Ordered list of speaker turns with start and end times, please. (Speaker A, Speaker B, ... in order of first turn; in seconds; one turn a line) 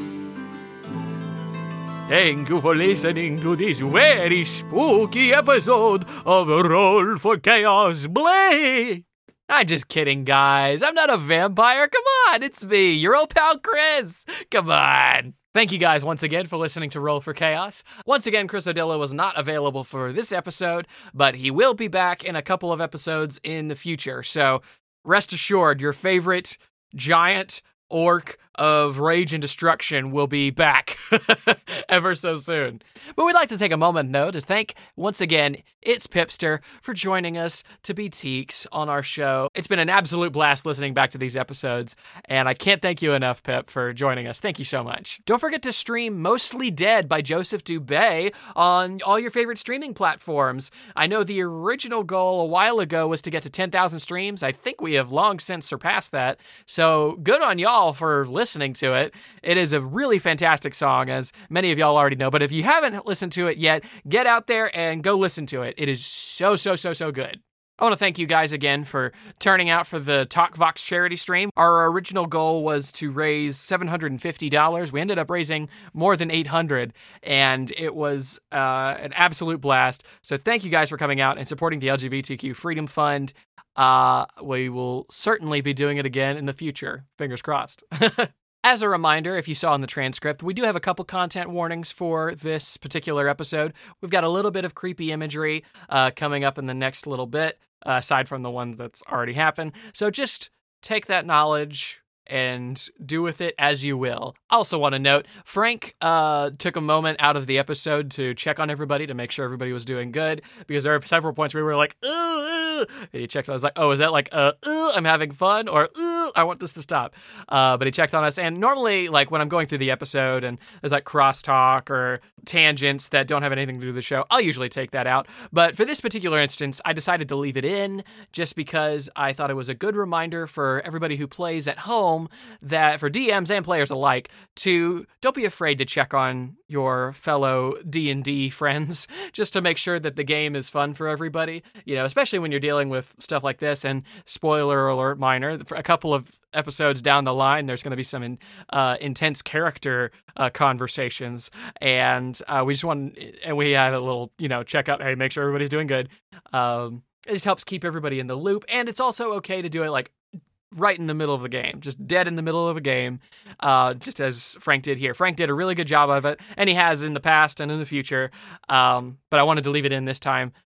Speaker A: 2.1-160.2
Speaker A: 160.7-170.5